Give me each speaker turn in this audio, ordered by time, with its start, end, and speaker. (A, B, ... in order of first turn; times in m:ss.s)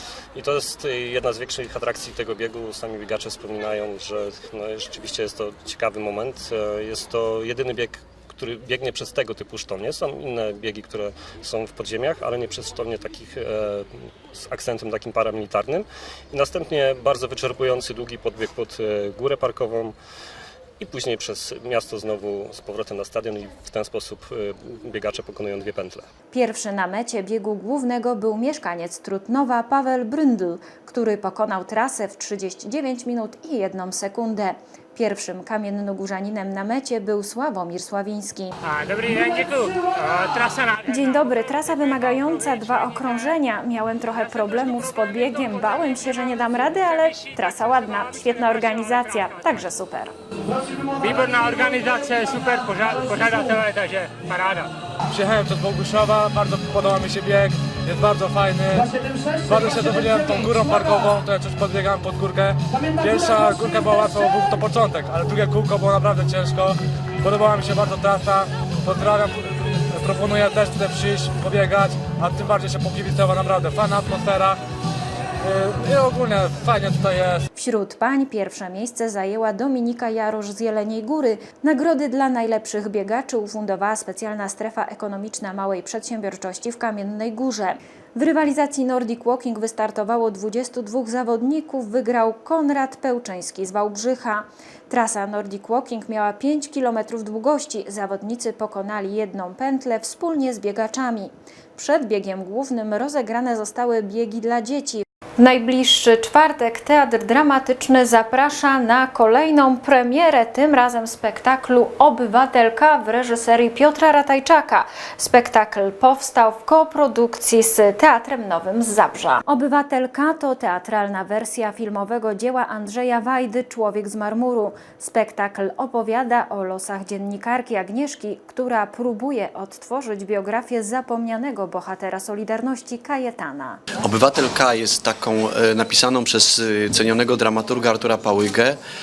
0:00.4-0:19.9 A
0:20.8-0:26.1 A
0:26.3-0:38.5 B
0:38.7-0:40.9 C
0:40.9-0:50.1 B
0:51.0-0:54.7 C
0:55.1-0:58.9 D
0:59.4-1:14.6 D
1:15.4-1:17.4 D
1:17.6-2:13.8 B
2:14.0-2:18.8 E